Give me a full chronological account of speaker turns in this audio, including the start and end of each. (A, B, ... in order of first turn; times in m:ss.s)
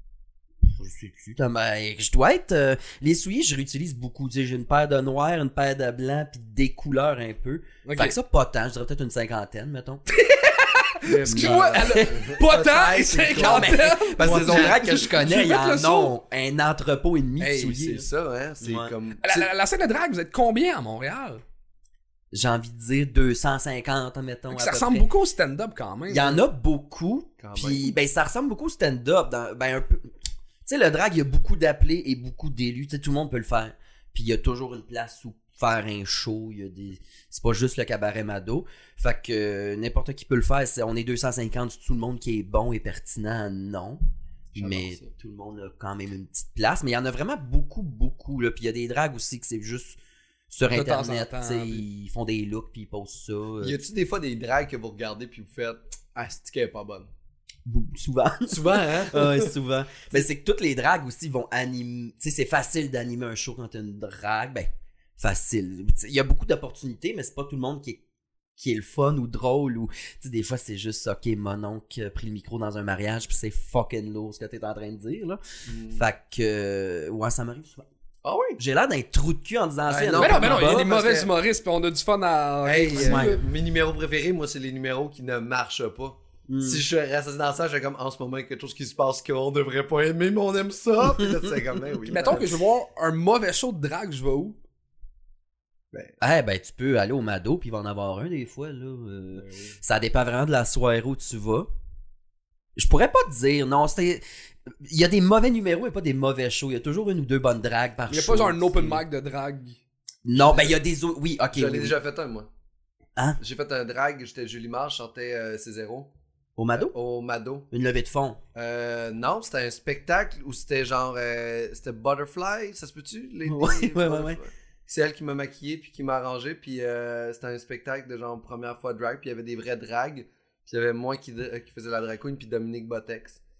0:00.6-0:10.0 A
0:07.8-0:08.2 B
0:10.1-0:16.1 B
0:11.0-0:15.1 C
0:11.2-0:12.2 A
0:13.3-0:18.0 A
0:17.4-0:19.5 C
0:18.6-0:18.9 A
0:19.2-0:21.4 B
0:22.3-0:25.1 A
0:24.5-0:26.4 B
0:26.1-0:30.1 A
0:27.4-0:27.9 C
0:30.6-0:44.0 A
0:44.5-0:50.0 A
0:44.5-0:45.1 C
0:50.5-0:53.8 A
0:50.7-0:51.8 B
0:53.6-0:57.1 C
0:57.6-1:08.0 A
0:58.5-0:59.5 C
1:08.6-1:15.4 A
1:15.7-1:16.0 C
1:15.9-1:17.9 A
1:18.2-1:18.6 C
1:18.6-1:20.8 A
1:19.9-1:21.3 C
1:20.2-1:23.4 B
1:22.6-1:32.5 C
1:22.9-1:23.4 A
1:26.5-1:26.8 A
1:32.1-1:34.6 B
1:36.2-1:41.7 A
1:39.4-1:39.7 B
1:42.8-1:49.0 A
1:48.1-1:49.8 B
1:50.2-1:51.9 A
1:50.3-1:50.8 C
1:51.5-1:52.5 C
1:53.4-1:56.1 C
1:56.6-1:56.9 A
1:56.7-1:57.7 C
1:57.7-1:58.4 A
1:58.5-2:13.4 C
2:03.5-2:04.4 A